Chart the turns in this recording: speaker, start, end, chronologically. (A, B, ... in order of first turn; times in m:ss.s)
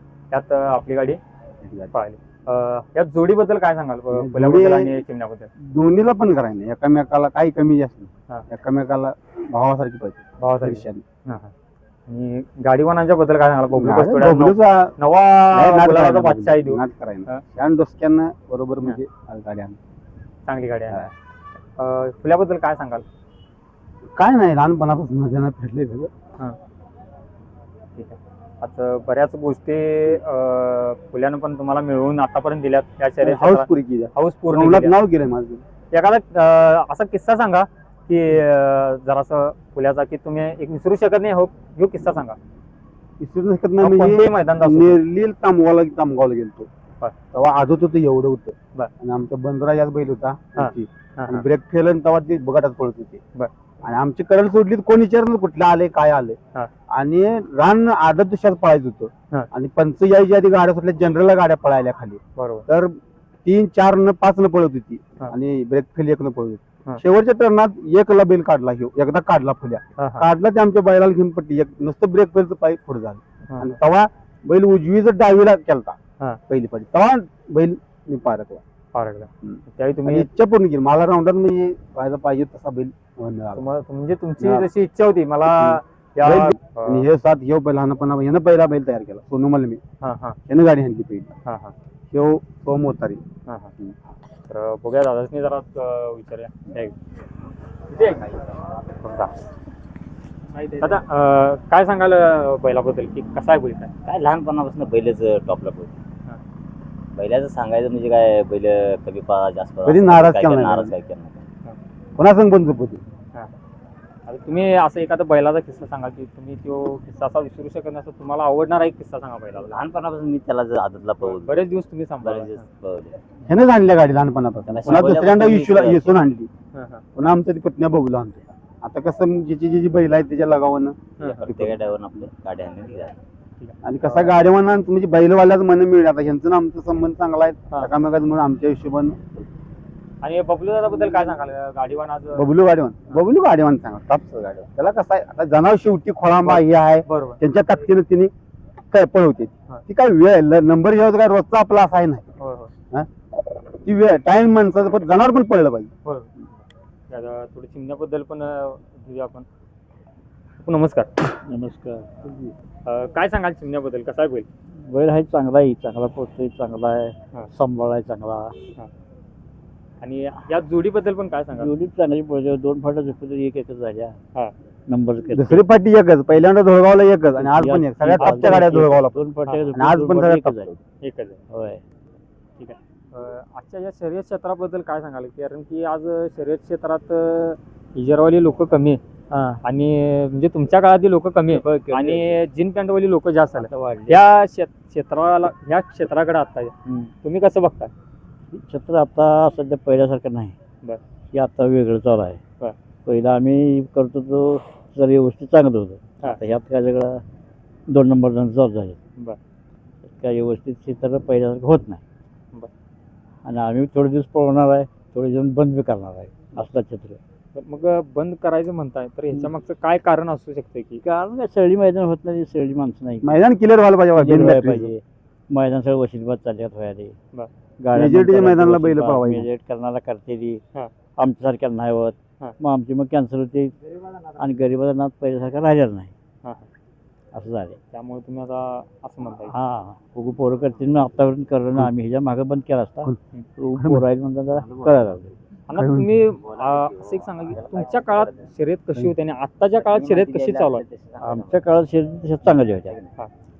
0:00.3-0:01.2 A
0:01.6-0:01.9 B
0:01.9-0:05.5 A
0:04.1-0:05.0 B
0:05.6-0:11.0 B
0:10.4-0:11.5 A
0:12.1-0:17.4 A
0:13.7-0:14.9 B
0:15.5-0:19.8 B
0:20.5-0:21.1 A
0:21.8-0:23.0 A
0:24.2-0:26.1 B
0:28.0-0:34.9 A
0:33.2-0:35.6 B
0:35.9-0:42.4 A
0:43.2-0:46.7 B
0:43.8-0:45.0 A
0:47.3-0:53.2 B
0:50.6-0:51.4 A
0:53.8-0:56.4 B
0:56.9-1:16.0 B
1:02.4-1:02.7 A
1:10.0-1:10.2 A
1:13.5-1:13.8 A
1:16.5-1:18.6 B
1:18.9-1:20.3 A
1:19.4-1:23.6 B
1:23.6-1:27.0 A
1:24.4-1:24.7 B
1:25.5-1:29.8 B
1:30.0-1:30.4 A
1:30.5-1:31.3 B
1:31.4-1:31.7 A
1:32.1-1:33.2 B
1:33.5-1:33.7 A
1:34.5-1:36.9 A
1:37.9-1:38.4 A
1:39.0-1:39.3 A
1:40.6-1:43.9 A
1:44.0-1:46.0 C
1:47.1-1:51.5 C
1:49.8-1:50.9 B
1:52.2-1:53.0 B
1:54.3-1:59.8 A
1:59.6-2:01.6 C
2:01.2-2:02.6 A
2:02.2-2:03.2 C
2:03.5-2:06.5 B
2:04.7-2:06.2 C
2:04.8-2:05.1 A
2:06.7-2:07.0 A
2:07.2-2:12.2 B
2:11.2-2:11.5 A
2:11.4-2:13.2 C
2:13.6-2:14.3 A
2:13.8-2:19.2 B
2:20.2-2:22.5 A
2:22.4-2:28.3 B
2:26.4-2:27.4 A
2:28.9-2:32.2 B
2:32.4-2:32.7 A
2:33.8-2:35.9 B
2:36.0-2:36.3 A
2:37.1-2:39.5 A
2:40.6-2:41.2 A
2:41.4-2:42.5 D
2:42.8-2:44.5 A
2:44.8-2:48.6 D
2:50.0-2:51.7 A
2:51.6-2:54.2 D
2:54.9-2:55.7 D
2:55.3-2:59.2 B
2:57.4-3:00.7 D
2:58.2-2:58.8 A
2:59.7-3:00.8 B
3:01.0-3:01.4 A
3:01.5-3:01.8 D
3:02.6-3:17.9 A
3:11.5-3:12.4 D
3:13.6-3:14.2 D
3:16.8-3:17.1 D
3:18.5-3:20.6 D
3:21.3-3:22.4 D
3:23.1-3:27.2 D
3:27.9-3:29.0 D
3:30.0-3:32.0 D
3:33.4-3:37.2 D
3:37.5-3:41.0 A
3:41.0-3:43.3 D
3:43.2-3:44.9 B
3:44.2-3:47.1 D
3:47.8-3:50.6 D
3:47.9-3:49.5 B
3:51.2-3:53.8 D
3:54.3-3:56.1 D
3:56.4-3:56.7 A
3:57.3-3:57.8 D
3:57.9-3:59.5 A
3:59.4-4:05.3 D
4:03.8-4:04.1 B
4:04.6-4:05.0 C
4:05.7-4:10.8 A
4:05.7-4:06.3 B
4:06.4-4:08.4 C
4:09.8-4:11.7 C
4:11.2-4:13.0 D
4:12.5-4:13.1 C